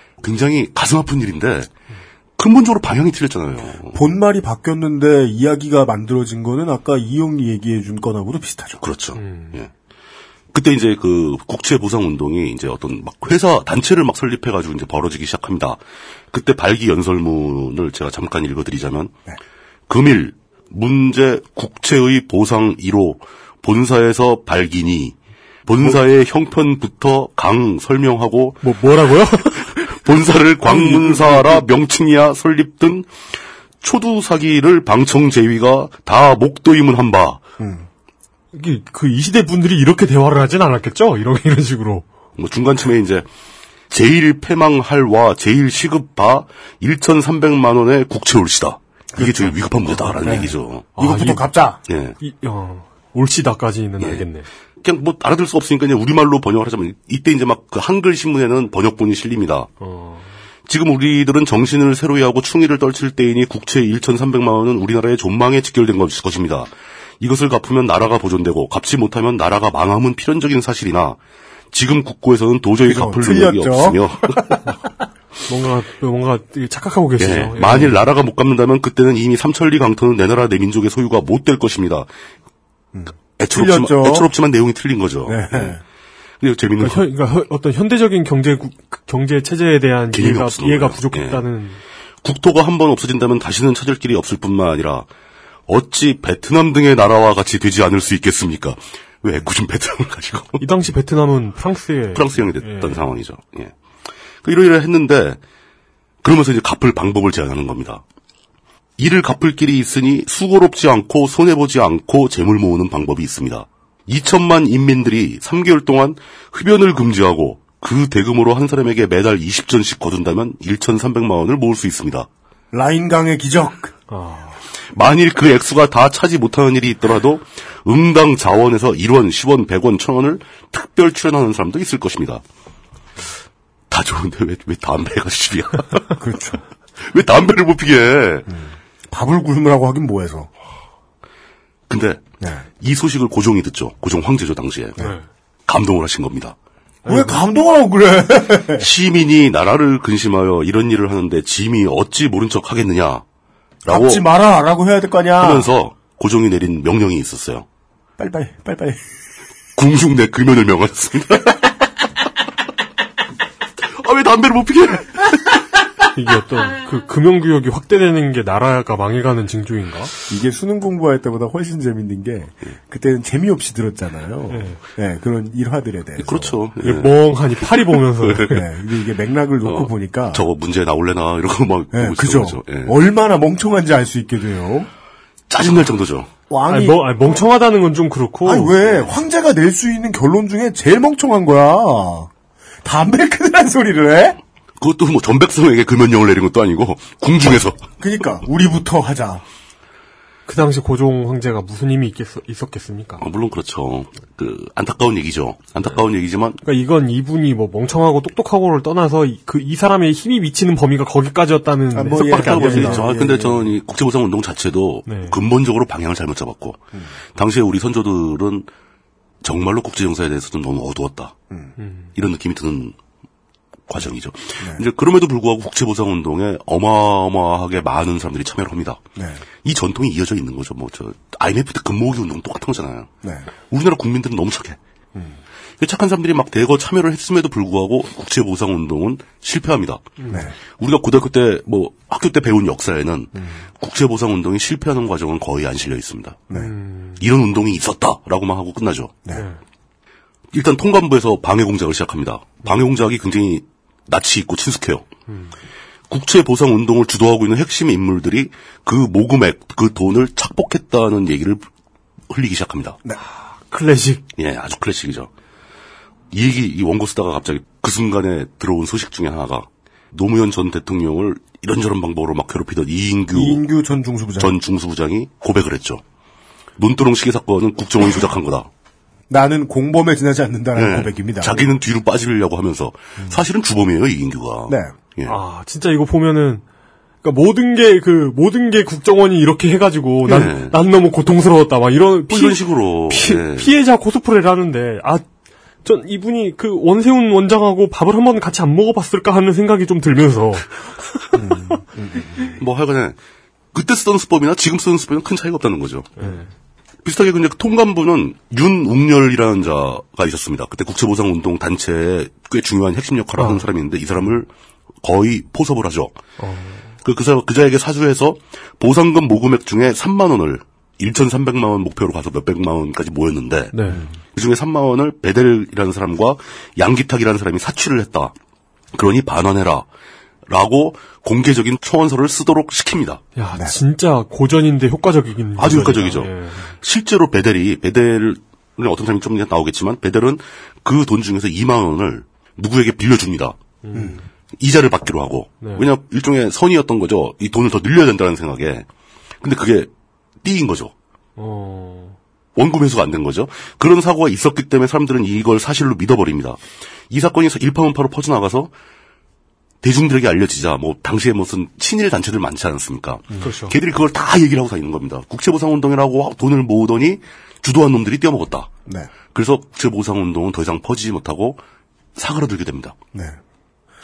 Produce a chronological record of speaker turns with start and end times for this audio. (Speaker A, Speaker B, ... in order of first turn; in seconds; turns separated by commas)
Speaker A: 0.2-1.7, Speaker A: 2.4-4.0, Speaker B: 3.9-8.8, Speaker A: 8.8-9.7, Speaker C: 9.2-9.6, Speaker A: 10.5-15.8, Speaker A: 16.3-19.1, Speaker A: 19.9-28.7, Speaker C: 28.6-30.0, Speaker A: 29.9-33.1, Speaker C: 30.6-31.6, Speaker A: 33.8-37.4, Speaker B: 37.6-37.9, Speaker C: 38.5-42.0, Speaker A: 42.4-43.2, Speaker A: 43.9-50.9, Speaker B: 49.1-49.5, Speaker C: 49.9-51.5, Speaker B: 50.2-51.8, Speaker A: 51.9-52.1, Speaker C: 52.2-54.5, Speaker A: 54.8-59.7, Speaker C: 59.8-60.3, Speaker A: 60.6-66.7, Speaker A: 67.2-71.2, Speaker A: 71.7-74.6, Speaker B: 72.8-74.6, Speaker C: 75.5-78.0, Speaker A: 77.2-82.1, Speaker B: 82.9-84.3, Speaker A: 83.4-85.8, Speaker B: 85.2-85.8, Speaker A: 86.4-87.0, Speaker C: 86.8-91.8, Speaker A: 90.1-91.4, Speaker A: 92.2-95.1, Speaker A: 95.7-100.6, Speaker C: 100.6-103.0, Speaker A: 102.1-103.7, Speaker A: 104.4-105.4, Speaker A: 106.2-108.0, Speaker A: 109.0-122.3, Speaker B: 122.7-123.9, Speaker C: 124.1-124.6, Speaker A: 124.9-132.4, Speaker A: 133.9-136.2, Speaker B: 136.2-136.6, Speaker A: 137.0-138.5, Speaker B: 138.5-140.5, Speaker A: 141.9-142.2, Speaker B: 142.4-142.7, Speaker A: 142.8-145.0, Speaker A: 145.7-146.5, Speaker C: 147.0-147.4, Speaker B: 147.1-148.9, Speaker A: 148.8-153.2, Speaker A: 153.8-154.3, Speaker B: 153.9-155.7, Speaker A: 155.4-157.6, Speaker B: 158.2-159.0, Speaker A: 159.8-161.7, Speaker A: 163.9-165.6, Speaker C: 166.1-170.1, Speaker B: 170.3-176.6, Speaker C: 174.5-174.8, Speaker A: 176.2-178.6, Speaker C: 176.8-178.6, Speaker B: 178.5-180.4, Speaker A: 179.6-182.9, Speaker B: 181.9-184.9, Speaker A: 185.5-186.3, Speaker B: 186.5-187.0, Speaker C: 186.7-188.8, Speaker B: 188.4-192.3, Speaker B: 192.8-194.4, Speaker A: 194.8-197.8, Speaker B: 198.0-199.4, Speaker C: 200.5-203.2, Speaker A: 203.2-206.6, Speaker C: 206.6-213.2, Speaker B: 211.9-213.6, Speaker A: 212.1-216.8, Speaker C: 215.1-215.3, Speaker A: 217.3-218.7, Speaker A: 219.4-221.3, Speaker C: 221.8-222.1, Speaker A: 222.1-222.9, Speaker A: 223.9-229.0, Speaker B: 229.2-229.4, Speaker A: 229.6-233.1, Speaker B: 233.2-233.5, Speaker A: 233.7-234.8, Speaker B: 235.1-235.4, Speaker A: 235.8-240.1, Speaker C: 240.2-240.5, Speaker A: 240.7-246.4, Speaker C: 246.5-247.2, Speaker A: 247.2-249.2, Speaker C: 249.3-249.6, Speaker A: 250.5-255.0, Speaker A: 256.1-261.6, Speaker A: 262.3-263.0, Speaker C: 263.7-264.2, Speaker A: 264.4-265.3, Speaker A: 266.3-273.6, Speaker B: 273.3-274.6, Speaker A: 274.4-276.0, Speaker A: 276.8-278.7, Speaker B: 279.3-281.6, Speaker A: 280.8-285.4, Speaker B: 284.7-284.9, Speaker C: 285.3-286.6, Speaker C: 287.2-295.2, Speaker A: 290.2-290.8, Speaker A: 292.3-293.7, Speaker C: 295.8-301.8, Speaker B: 301.3-302.5, Speaker A: 302.6-303.2, Speaker A: 303.7-306.1, Speaker C: 306.2-306.5, Speaker A: 307.0-314.5, Speaker C: 313.4-313.6, Speaker A: 315.0-316.2, Speaker C: 316.4-316.8, Speaker A: 317.0-323.8, Speaker C: 323.7-324.0, Speaker A: 324.3-328.3, Speaker A: 328.9-329.9, Speaker A: 330.5-333.2, Speaker C: 333.4-336.6, Speaker A: 335.6-343.6, Speaker C: 343.8-344.2, Speaker B: 343.9-344.2, Speaker A: 344.6-348.9, Speaker C: 345.6-345.9, Speaker A: 349.4-349.9, Speaker A: 350.4-350.9, Speaker C: 351.4-352.1, Speaker A: 352.6-358.7, Speaker A: 359.8-368.7, Speaker C: 363.4-363.7, Speaker A: 369.3-371.6, Speaker A: 372.1-372.9